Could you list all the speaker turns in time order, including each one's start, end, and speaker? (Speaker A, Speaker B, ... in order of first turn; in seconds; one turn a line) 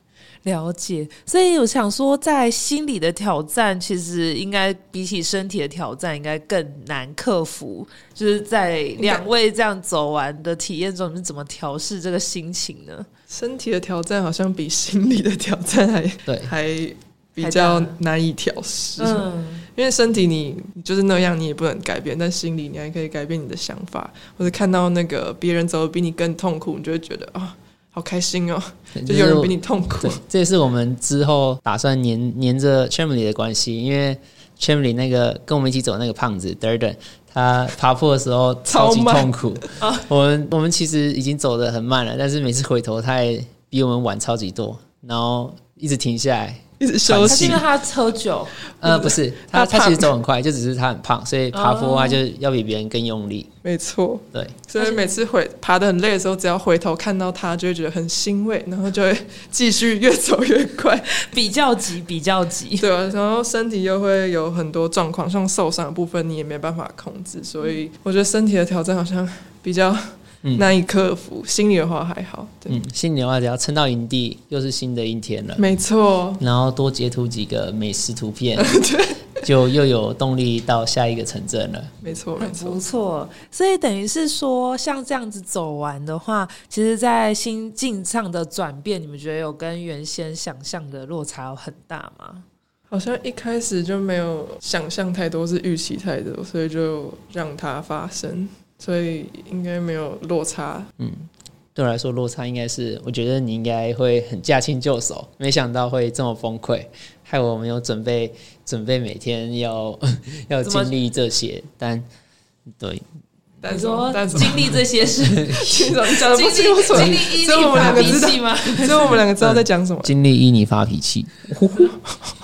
Speaker A: 0.4-13.1
Speaker B: 9.0-9.2
Speaker B: 13.3-30.2
Speaker C: 16.2-16.5
Speaker A: 17.4-18.0
Speaker A: 19.0-19.6
Speaker C: 28.9-47.6
Speaker B: 38.6-39.4
Speaker A: 39.8-40.0
Speaker B: 46.8-47.6
Speaker A: 47.2-48.5
Speaker B: 48.7-50.1
Speaker C: 48.8-53.5
Speaker A: 51.5-52.2
Speaker B: 53.6-61.1
Speaker C: 54.3-54.6
Speaker A: 54.8-55.0
Speaker A: 61.1-62.9
Speaker B: 62.8-72.8
Speaker C: 72.7-75.6
Speaker B: 75.6-76.4
Speaker C: 76.4-78.7
Speaker B: 78.6-79.2
Speaker C: 79.4-81.9
Speaker B: 82.0-82.8
Speaker A: 82.4-92.4
Speaker B: 92.9-100.9
Speaker C: 101.0-112.0
Speaker A: 110.6-110.9
Speaker C: 112.7-113.0
Speaker B: 113.6-114.7
Speaker A: 113.7-119.2
Speaker C: 114.3-114.7
Speaker C: 115.2-115.9
Speaker B: 115.5-120.1
Speaker C: 116.9-117.2
Speaker C: 117.7-118.2
Speaker C: 119.4-121.9